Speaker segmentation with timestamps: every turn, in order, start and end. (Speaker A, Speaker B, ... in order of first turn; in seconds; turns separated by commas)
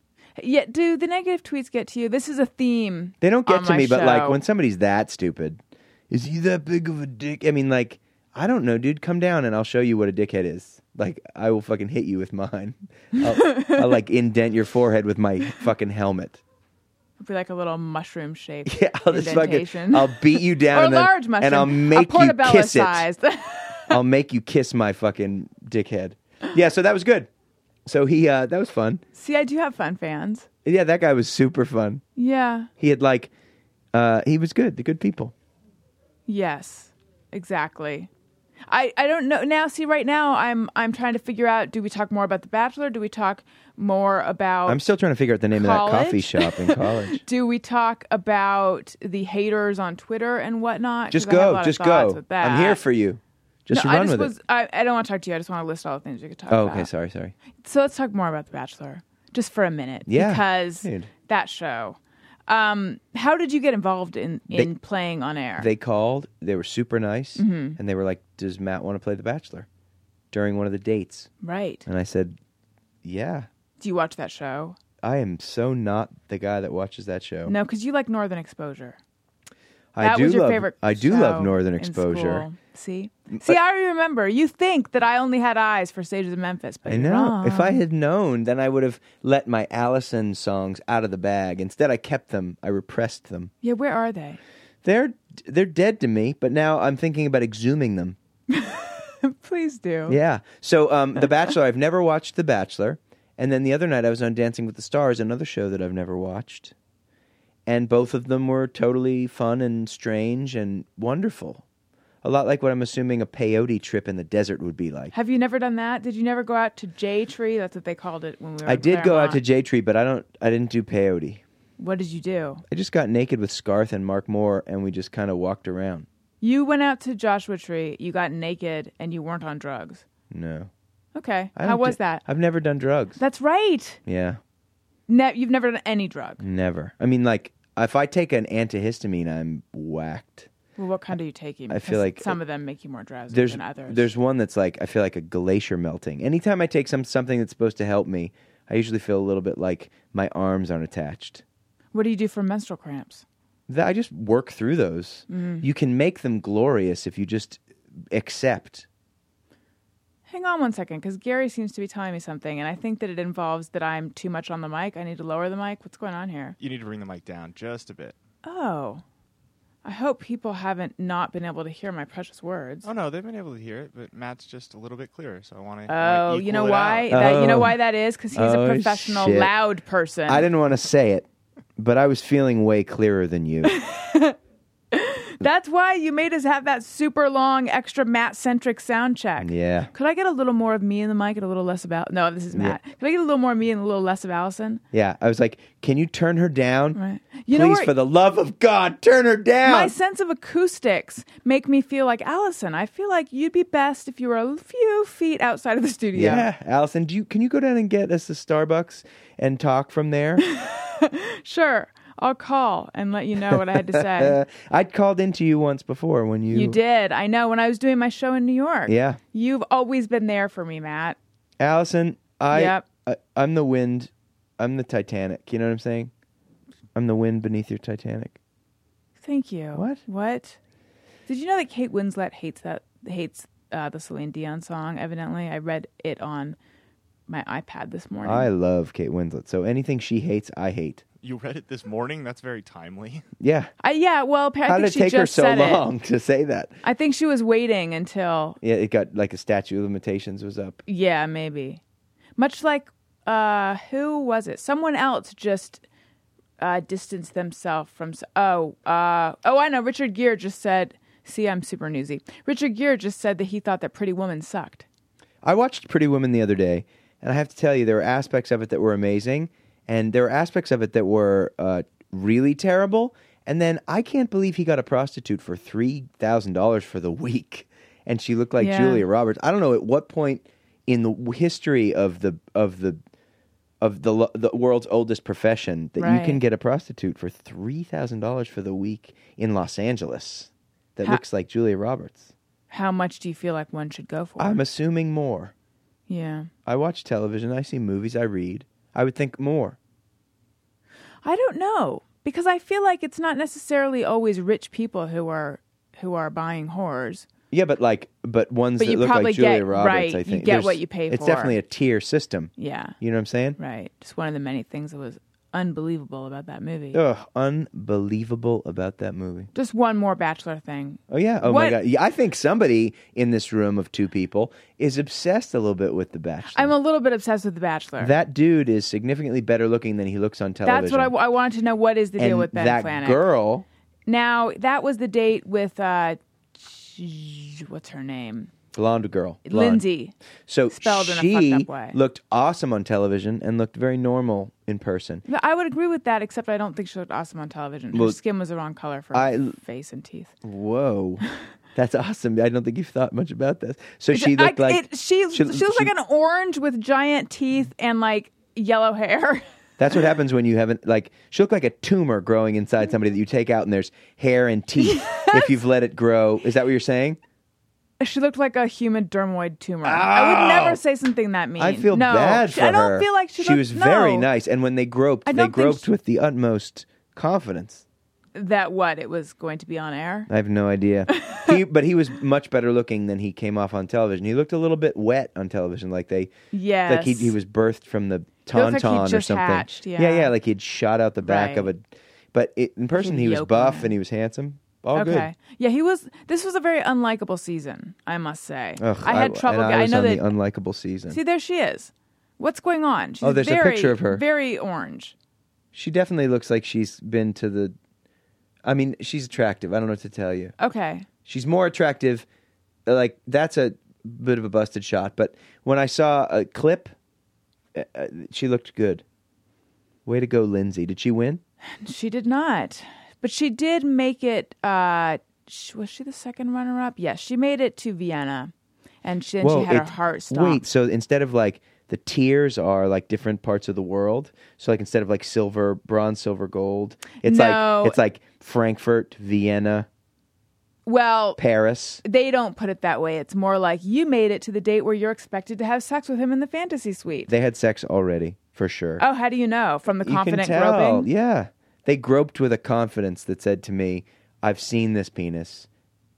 Speaker A: 0.4-4.4, Speaker B: 3.2-16.4, Speaker A: 13.2-13.9, Speaker A: 17.2-24.0, Speaker B: 18.7-23.1, Speaker B: 23.9-27.3, Speaker B: 27.9-29.0, Speaker A: 29.1-30.5, Speaker B: 30.6-32.0, Speaker A: 32.2-32.7, Speaker B: 32.8-33.3, Speaker B: 33.9-35.3, Speaker A: 36.3-38.1, Speaker A: 38.7-44.8, Speaker B: 44.7-47.2, Speaker A: 45.5-52.8, Speaker B: 51.1-54.3, Speaker A: 53.7-56.9, Speaker B: 56.5-57.3, Speaker A: 57.6-65.7, Speaker B: 60.1-61.1, Speaker B: 65.6-69.7, Speaker A: 67.4-67.8, Speaker B: 70.3-71.3, Speaker A: 71.4-71.9, Speaker B: 71.9-72.4, Speaker B: 73.0-73.5, Speaker A: 73.8-74.8, Speaker B: 75.0-77.5, Speaker A: 77.5-79.0, Speaker B: 80.0-82.5, Speaker A: 80.0-87.8, Speaker B: 83.3-83.6, Speaker B: 86.9-93.5, Speaker A: 93.6-94.4, Speaker B: 94.8-98.2, Speaker A: 98.5-100.2, Speaker B: 100.1-106.7, Speaker B: 107.7-111.6, Speaker B: 112.2-115.1, Speaker A: 115.1-119.4, Speaker B: 118.6-121.4, Speaker A: 121.8-122.6, Speaker B: 122.7-126.1, Speaker A: 126.4-130.0, Speaker B: 130.3-130.7, Speaker A: 131.2-132.2, Speaker B: 131.6-133.2, Speaker A: 133.2-134.0, Speaker B: 134.1-134.4, Speaker A: 135.1-136.4, Speaker B: 136.4-140.5, Speaker A: 140.8-144.1, Speaker B: 141.7-142.4, Speaker B: 143.3-151.4, Speaker A: 151.9-153.2, Speaker B: 153.7-158.9, Speaker A: 155.3-155.7, Speaker A: 160.3-166.6, Speaker C: 166.6-168.2, Speaker A: 168.4-169.0, Speaker A: 169.8-172.9, Speaker C: 172.8-177.1, Speaker A: 175.9-180.5, Speaker B: 177.1-177.8, Speaker B: 178.3-179.5, Speaker B: 180.3-181.3, Speaker B: 181.8-183.7, Speaker A: 183.6-184.4, Speaker A: 184.9-194.8, Speaker B: 189.4-189.9, Speaker B: 192.5-192.8, Speaker B: 194.9-197.0, Speaker A: 196.9-197.9, Speaker B: 197.5-199.9, Speaker A: 199.6-206.5, Speaker B: 206.2-210.4, Speaker A: 210.4-214.4, Speaker B: 213.4-216.8, Speaker A: 216.5-221.2, Speaker B: 218.9-219.2, Speaker B: 221.6-226.1, Speaker A: 222.5-222.8, Speaker B: 226.9-228.4, Speaker A: 229.2-230.6, Speaker B: 229.8-230.0, Speaker A: 231.3-236.6, Speaker A: 237.3-238.5, Speaker B: 238.2-241.0, Speaker C: 241.2-243.2, Speaker B: 243.4-243.7, Speaker A: 243.8-245.8, Speaker B: 244.7-246.7, Speaker A: 246.8-248.6, Speaker B: 248.6-250.8, Speaker A: 250.9-251.8, Speaker A: 252.4-255.8, Speaker A: 256.6-264.9, Speaker B: 265.4-283.0, Speaker A: 278.6-279.1, Speaker B: 283.8-292.3, Speaker A: 286.0-286.4, Speaker A: 292.7-294.6, Speaker B: 294.4-295.5, Speaker A: 296.1-296.5, Speaker B: 296.7-299.8, Speaker A: 301.2-307.3, Speaker B: 307.5-313.6, Speaker A: 308.8-311.6, Speaker A: 312.6-313.0, Speaker A: 313.6-317.0, Speaker B: 316.9-319.5, Speaker A: 319.5-321.8, Speaker B: 321.1-326.7, Speaker A: 326.5-328.1, Speaker B: 328.0-331.1, Speaker A: 330.6-333.2, Speaker B: 332.2-333.6, Speaker A: 334.1-338.5, Speaker B: 338.7-339.8, Speaker A: 339.5-340.1, Speaker B: 340.5-345.2, Speaker A: 340.7-342.0, Speaker A: 345.3-350.3, Speaker B: 347.9-348.2, Speaker B: 349.1-349.6, Speaker B: 350.4-351.2, Speaker B: 351.8-355.9, Speaker A: 354.1-359.5, Speaker B: 359.8-367.2, Speaker A: 364.8-365.6, Speaker A: 368.0-374.3, Speaker B: 369.8-370.8, Speaker B: 371.6-377.9, Speaker A: 375.3-375.9, Speaker A: 378.4-380.3, Speaker B: 380.3-386.3, Speaker A: 381.1-381.6, Speaker A: 386.5-387.4, Speaker B: 386.9-395.3, Speaker A: 388.5-390.3, Speaker A: 391.2-391.7, Speaker A: 393.0-393.9, Speaker A: 394.9-400.3, Speaker B: 398.8-401.2, Speaker A: 401.1-405.1, Speaker B: 403.2-404.2, Speaker B: 405.7-407.8, Speaker B: 408.6-410.6, Speaker A: 410.6-411.1, Speaker B: 411.2-412.3, Speaker B: 412.9-416.9, Speaker B: 417.7-419.0, Speaker B: 420.1-421.4, Speaker A: 421.8-428.5, Speaker A: 429.0-430.6, Speaker B: 429.4-439.9, Speaker A: 437.2-438.0, Speaker A: 440.9-441.4, Speaker B: 441.4-442.0, Speaker A: 442.0-447.3, Speaker B: 447.3-449.0, Speaker A: 449.0-451.1, Speaker B: 450.0-455.7